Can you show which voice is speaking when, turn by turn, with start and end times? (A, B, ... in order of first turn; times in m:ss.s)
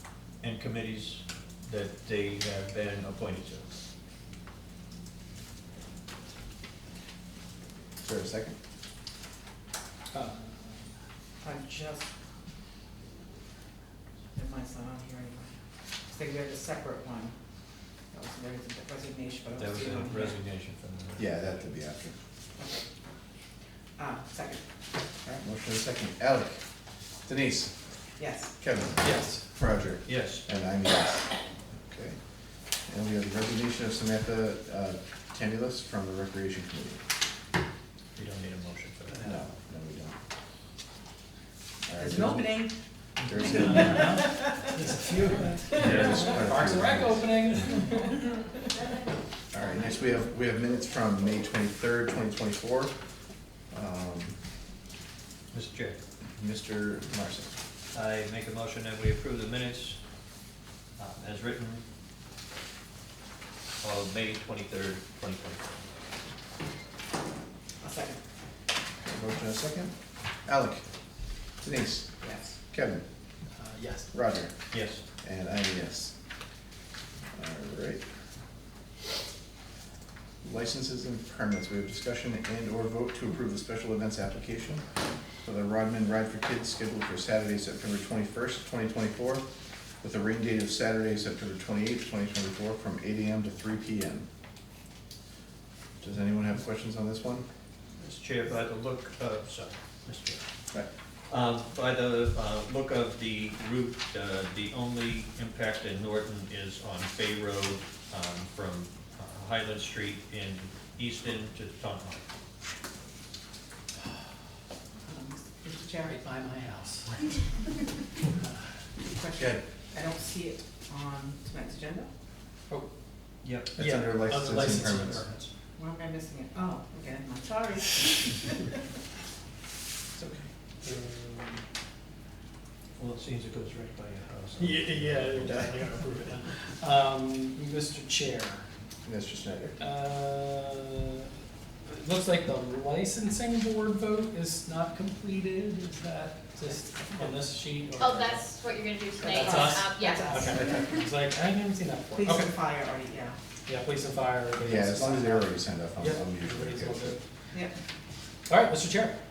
0:00.4-0:03.7 A
0:08.0-0:08.5 B
0:10.1-0:10.9 C
0:11.4-0:12.1 D
0:14.3-0:15.5 D
0:16.1-0:17.4 D
0:18.1-0:20.4 D
0:19.6-0:21.4 A
0:21.2-0:22.1 B
0:22.6-0:22.8 D
0:24.0-0:24.6 D
0:25.2-0:26.6 B
0:27.2-0:27.7 B
0:28.2-0:28.5 D
0:28.6-0:32.2 B
0:29.0-0:29.4 C
0:30.0-0:30.4 A
0:32.9-0:37.0 B
0:38.2-0:39.3 A
0:39.2-0:40.2 B
0:41.9-0:42.5 B
0:42.0-0:42.7 D
0:43.2-0:44.0 A
0:43.2-0:44.3 B
0:43.5-0:48.3 C
0:43.6-0:45.0 D
0:45.7-0:47.2 B
0:45.8-0:46.2 A
0:49.5-0:52.9 B
0:53.7-0:54.4 B
0:55.5-0:56.0 A
0:56.4-0:57.5 B
0:57.9-1:00.0 A
1:01.0-1:01.8 A
1:03.8-1:05.6 A
1:07.8-1:08.2 D
1:09.0-1:09.9 B
1:10.4-1:10.8 B
1:11.6-1:12.1 B
1:12.2-1:12.5 D
1:12.7-1:13.0 B
1:13.6-1:14.1 C
1:14.1-1:14.5 B
1:14.7-1:15.0 A
1:15.2-1:16.1 B
1:17.3-1:18.0 B
1:20.4-1:24.8 B
1:25.4-1:29.4 B
1:30.0-1:34.2 B
1:36.0-1:37.4 B
1:38.0-1:40.4 A
1:41.3-1:52.2 A
1:55.0-1:56.2 D
1:56.0-1:58.7 C
1:59.1-2:02.1 D
1:59.4-1:59.6 B
2:03.4-2:03.7 A
2:03.7-2:05.3 B
2:03.8-2:05.4 C
2:05.8-2:08.8 D
2:10.8-2:11.6 C
2:13.0-2:15.7 A
2:14.6-2:18.7 C
2:15.4-2:15.7 B
2:19.0-2:19.8 B
2:19.8-2:21.3 C
2:21.8-2:28.4 C
2:26.7-2:27.3 D
2:28.0-2:30.7 E
2:29.2-2:30.8 D
2:29.3-2:32.5 C
2:32.2-2:33.4 D
2:33.7-2:37.2 C
2:34.6-2:37.2 B
2:38.5-2:39.2 C